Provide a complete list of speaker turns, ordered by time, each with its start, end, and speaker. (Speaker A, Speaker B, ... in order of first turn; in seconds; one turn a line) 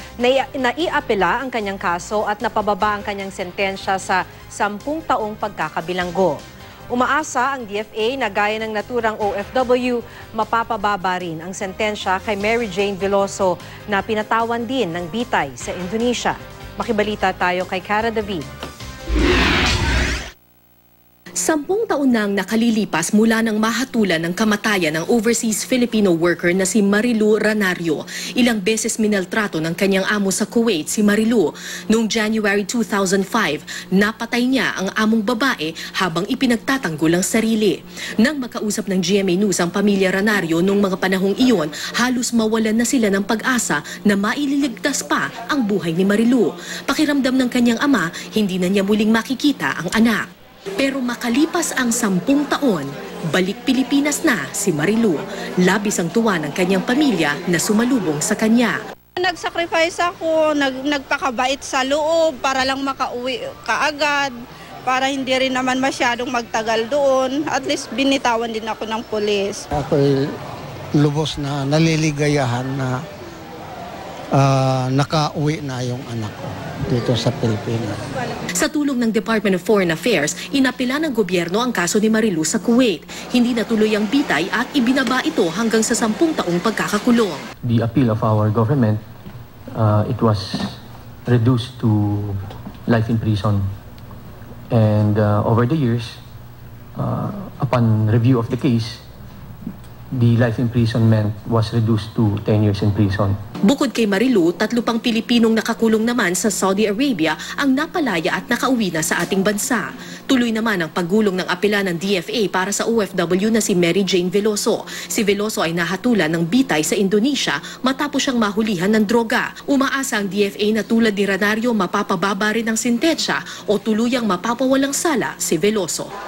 Speaker A: 0.2-18.5
Speaker B: 21.4-50.2
Speaker B: 50.8-58.8
Speaker C: 59.2-64.3
Speaker C: 64.8-69.6
Speaker D: 69.7-70.3
Speaker D: 71.0-73.0
Speaker D: 74.3-78.1
Speaker B: 78.6-87.4
Speaker E: 87.6-89.0
Speaker E: 89.7-93.7
Speaker E: 94.7-96.2
Speaker E: 97.0-99.0
Speaker E: 100.1-103.4
Speaker B: 103.6-126.1